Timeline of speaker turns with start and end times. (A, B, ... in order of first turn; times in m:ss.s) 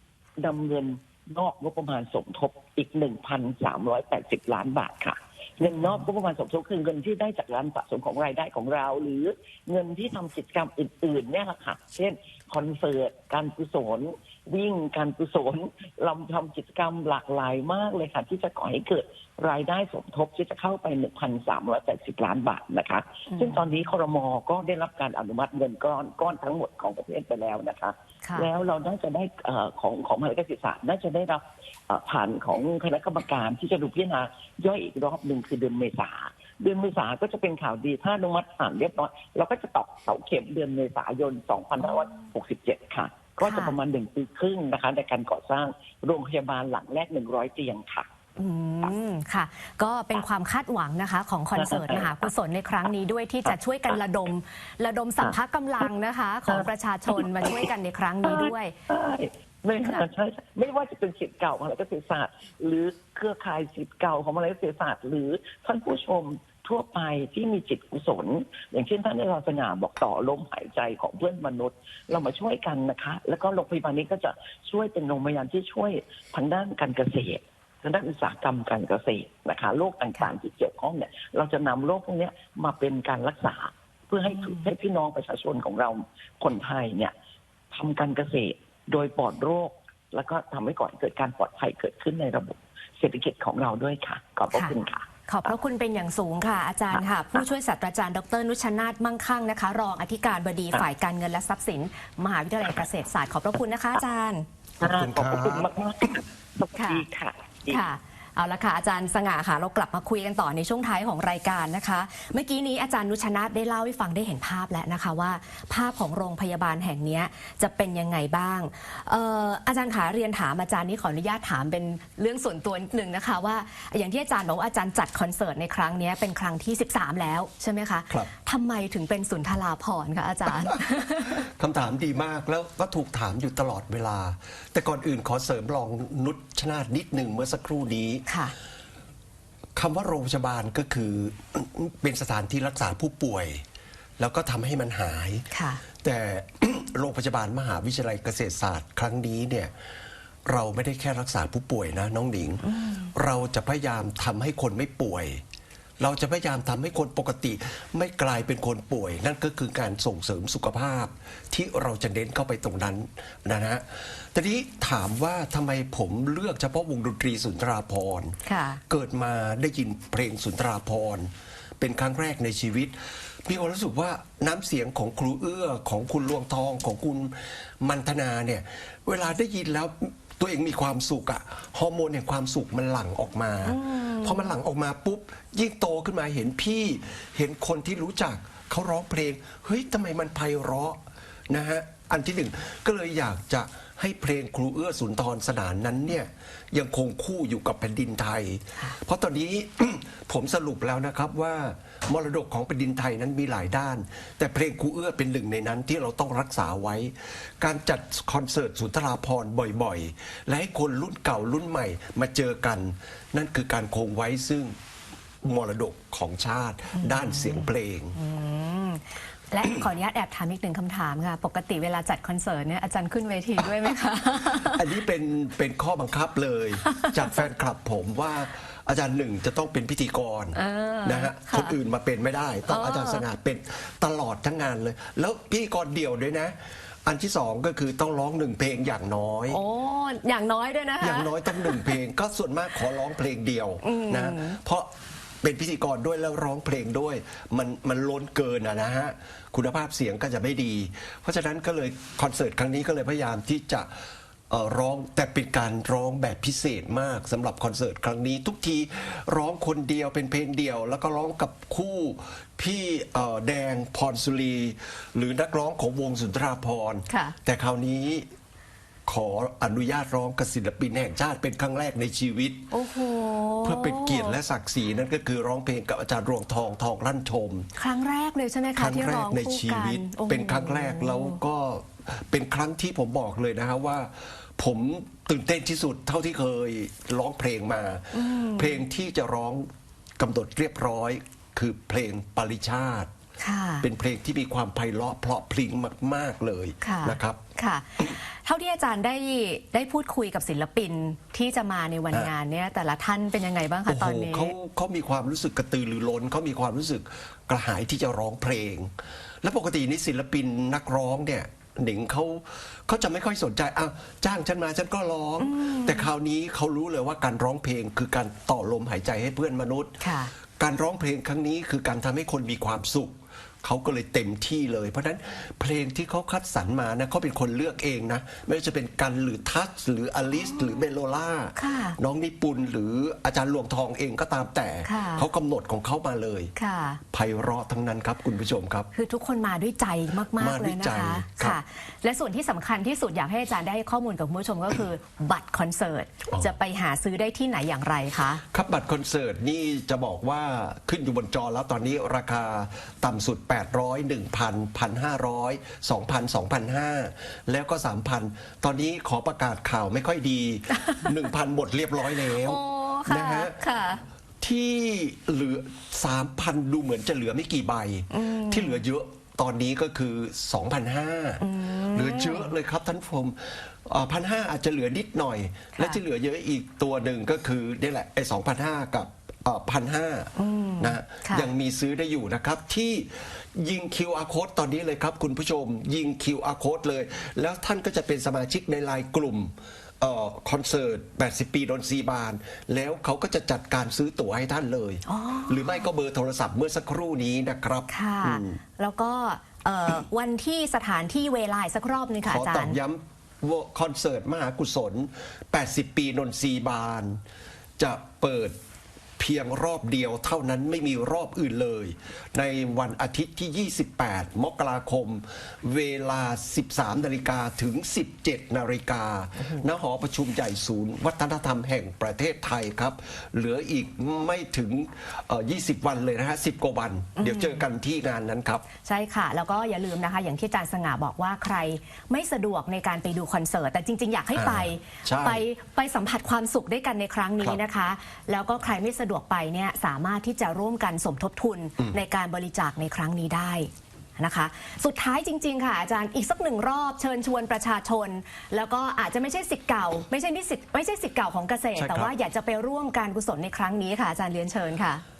0:00.4-0:48.1 A
0:05.6-0:06.0 B
0:23.3-0:23.6 B
0:43.4-0:43.7 B
0:48.4-0:58.7 B
0:51.6-0:52.2 A
0:57.2-0:57.6 A
0:58.2-1:27.1 A
1:24.3-1:24.6 B
1:27.7-1:35.1 A
1:35.3-1:44.5 B
1:44.8-1:47.8 A
1:44.8-1:45.7 C
1:46.7-1:47.0 B
1:47.7-2:11.4 B
2:11.3-2:18.2 C
2:18.3-2:18.5 B
2:19.7-2:23.6 C
2:24.2-2:25.4 C
2:25.5-2:25.8 B
2:26.0-2:29.7 C
2:30.4-2:35.4 C
2:32.6-2:33.1 B
2:36.0-2:48.4 C
2:48.4-2:48.8 B
2:48.9-3:34.7 C
3:03.6-3:04.4 B
3:35.4-3:38.2 C
3:37.0-3:44.9 B
3:44.6-3:59.6 C
3:50.5-3:51.7 B
3:52.7-3:53.2 B
3:59.5-4:01.9 B
4:01.0-4:04.9 C
4:03.8-4:04.6 B
4:05.4-4:13.9 C
4:14.5-4:28.3 C
4:27.1-4:27.3 B
4:29.0-4:32.7 C
4:32.7-4:34.4 B
4:33.6-4:37.7 C
4:37.8-4:41.4 B
4:38.8-4:53.1 C
4:48.1-4:48.8 B
4:53.4-4:53.8 B
4:53.8-4:57.4 C
4:56.8-5:04.5 B
5:03.9-5:08.9 C
5:09.4-5:20.0 C
5:15.4-5:16.0 B
5:20.0-5:20.3 B
5:20.6-5:36.5 C
5:31.6-5:32.0 B
5:34.8-5:35.2 B
5:36.6-5:37.0 B
5:37.1-5:38.9 C
5:38.9-5:48.4 B
5:40.4-5:41.6 C
5:48.5-6:03.5 C
6:02.3-6:04.0 B
6:04.4-6:38.6 C
6:08.1-6:08.8 B
6:11.4-6:12.5 B
6:20.4-6:21.5 B
6:35.0-6:35.8 B
6:37.9-6:42.8 B
6:42.3-6:47.2 C
6:47.8-6:48.6 C
6:49.2-7:08.6 C
7:07.2-7:07.6 B
7:08.8-7:35.0 B
7:14.3-7:15.4 C
7:31.8-7:32.1 C